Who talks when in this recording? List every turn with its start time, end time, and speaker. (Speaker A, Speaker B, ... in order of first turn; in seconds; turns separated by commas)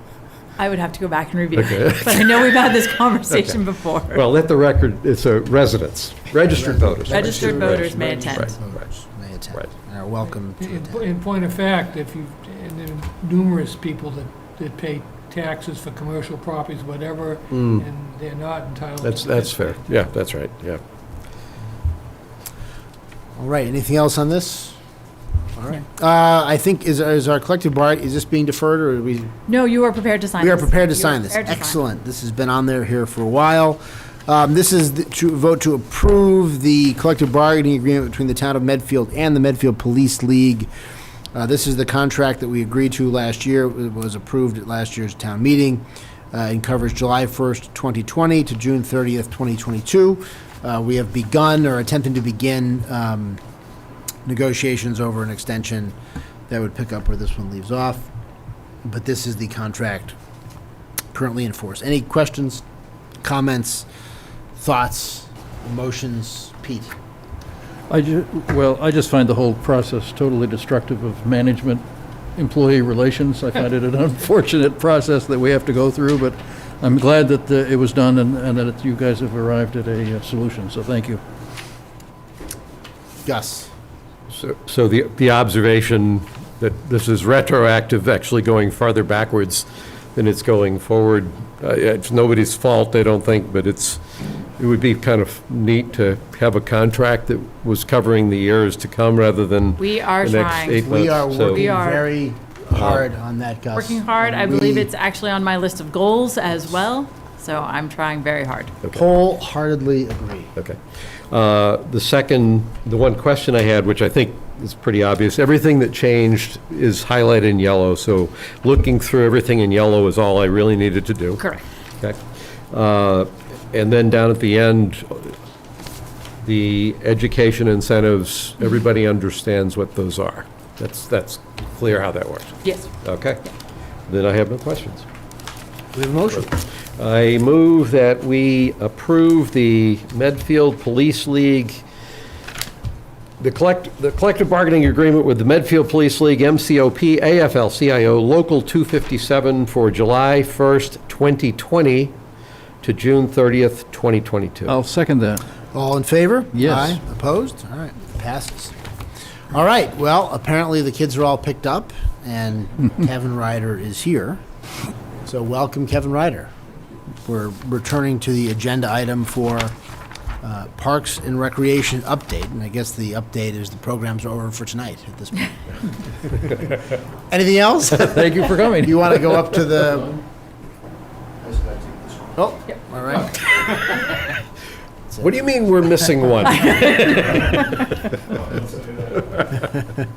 Speaker A: 0.6-4.2, Speaker B: 1.5-2.5, Speaker B: 4.1-8.5, Speaker C: 6.5-11.0, Speaker A: 7.1-8.6, Speaker D: 10.6-19.8, Speaker B: 17.5-17.8, Speaker B: 19.0-20.8, Speaker C: 23.4-24.8, Speaker C: 25.6-29.3, Speaker A: 29.5-31.8, Speaker C: 30.4-40.7, Speaker C: 41.3-53.4, Speaker C: 54.2-55.9, Speaker C: 56.5-58.1, Speaker C: 58.8-60.1, Speaker C: 61.1-62.6, Speaker C: 63.2-63.9, Speaker C: 64.6-66.9, Speaker E: 67.9-71.8, Speaker E: 72.3-81.2, Speaker C: 83.2-83.7, Speaker B: 84.3-94.0, Speaker B: 94.6-101.7, Speaker A: 99.8-102.0, Speaker C: 100.8-104.9, Speaker B: 102.7-103.0, Speaker A: 103.8-108.7, Speaker C: 108.9-110.5, Speaker B: 111.3-121.4, Speaker B: 122.7-125.3, Speaker B: 126.4-133.4, Speaker A: 132.6-132.9, Speaker B: 134.1-135.1, Speaker C: 135.9-136.5, Speaker B: 137.0-141.8, Speaker B: 143.4-152.1, Speaker B: 152.8-154.8, Speaker E: 154.7-155.4, Speaker C: 155.7-158.7, Speaker E: 156.5-156.9, Speaker C: 159.5-164.4, Speaker C: 165.2-166.5, Speaker C: 167.2-169.7, Speaker C: 170.4-175.5, Speaker C: 176.2-176.6, Speaker C: 177.3-180.2, Speaker E: 177.9-179.2, Speaker C: 181.6-183.7, Speaker B: 185.2-187.8, Speaker A: 186.6-187.5